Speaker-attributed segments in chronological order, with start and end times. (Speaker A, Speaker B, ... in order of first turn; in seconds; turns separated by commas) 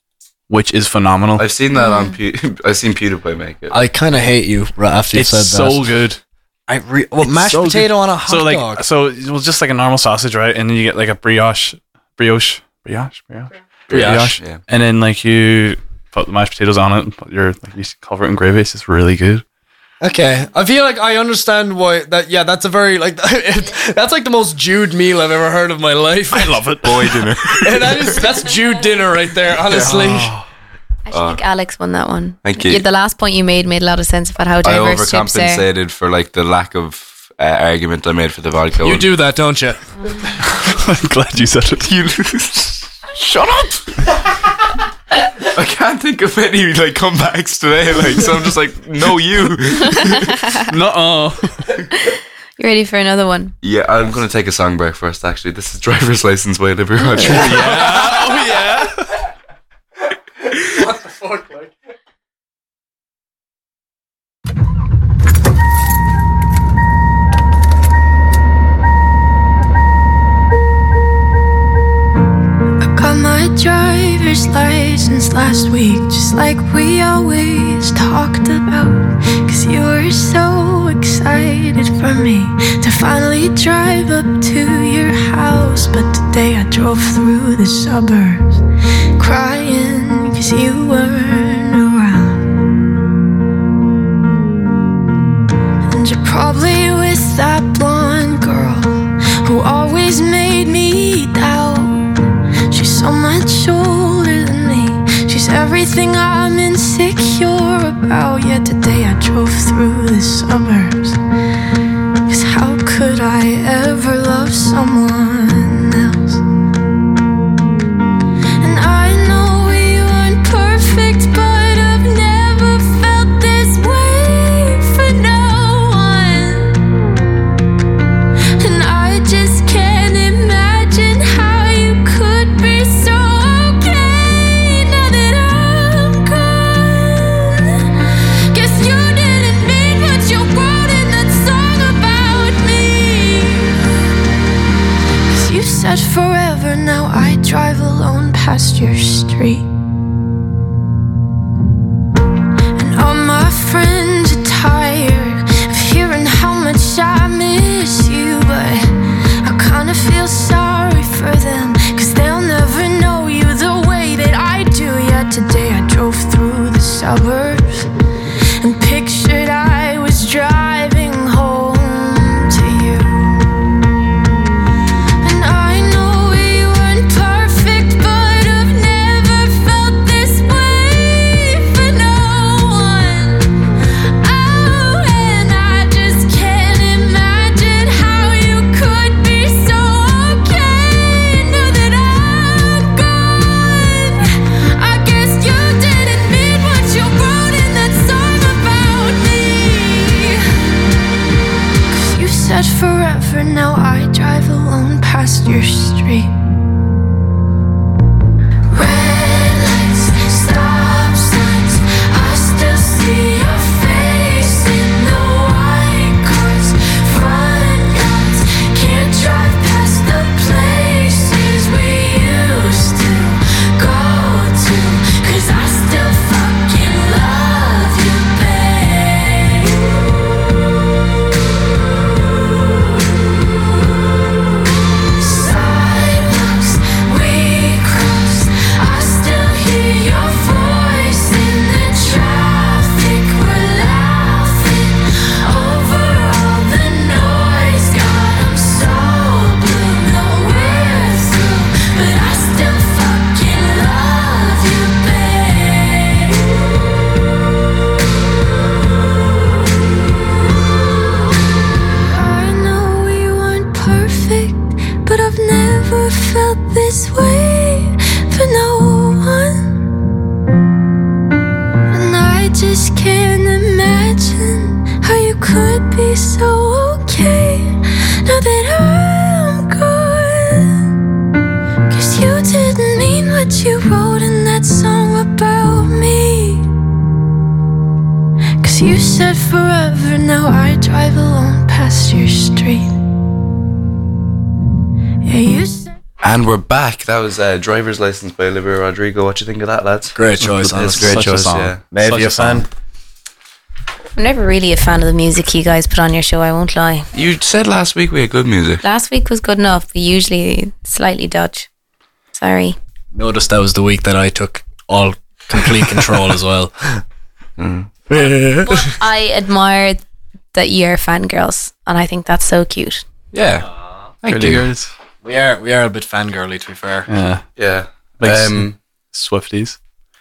Speaker A: 0.5-1.4, Speaker B: 1.4-3.8, Speaker C: 1.7-2.1, Speaker D: 3.7-5.8, Speaker A: 5.1-6.2, Speaker D: 6.7-8.8, Speaker A: 7.2-19.4, Speaker D: 13.9-14.3, Speaker B: 13.9-14.6, Speaker D: 20.0-26.6, Speaker A: 26.3-27.3, Speaker B: 26.8-28.3, Speaker D: 27.6-30.3, Speaker B: 29.6-30.0, Speaker A: 29.8-30.4, Speaker C: 31.1-35.6, Speaker B: 31.1-31.4, Speaker B: 32.4-32.8, Speaker B: 34.6-39.1, Speaker D: 38.8-39.8, Speaker A: 40.6-41.9, Speaker B: 41.8-44.0, Speaker B: 45.4-50.3, Speaker C: 50.0-50.7, Speaker A: 50.7-51.6, Speaker C: 52.0-53.5, Speaker B: 53.6-58.1, Speaker A: 57.2-59.1, Speaker D: 60.7-61.7, Speaker E: 72.8-88.6, Speaker E: 89.2-92.5, Speaker E: 95.9-102.1, Speaker E: 102.7-111.2, Speaker E: 112.3-116.4, Speaker E: 118.6-126.8, Speaker E: 128.6-137.9, Speaker E: 138.5-143.9, Speaker E: 145.3-149.7, Speaker E: 152.8-158.9, Speaker E: 159.4-167.9, Speaker E: 168.6-173.5, Speaker E: 175.2-183.6, Speaker E: 184.2-200.4, Speaker E: 201.9-206.3, Speaker E: 208.7-230.2, Speaker E: 232.5-233.4, Speaker E: 235.1-256.5, Speaker E: 261.9-269.8, Speaker E: 271.9-280.8, Speaker E: 281.9-286.7, Speaker E: 288.6-292.9, Speaker E: 295.2-295.9, Speaker B: 296.2-301.8, Speaker D: 300.1-301.2, Speaker A: 300.4-302.6, Speaker D: 301.9-302.7, Speaker C: 304.1-307.1, Speaker B: 307.1-308.8, Speaker C: 308.8-311.7, Speaker C: 312.3-312.8, Speaker D: 313.1-317.0, Speaker B: 317.6-317.9, Speaker D: 318.1-318.9, Speaker C: 318.2-320.0, Speaker C: 320.5-323.0, Speaker B: 323.3-323.6, Speaker B: 324.2-324.6, Speaker A: 324.3-324.9, Speaker D: 325.2-327.1, Speaker A: 327.1-327.4, Speaker B: 327.6-328.7, Speaker A: 328.2-329.8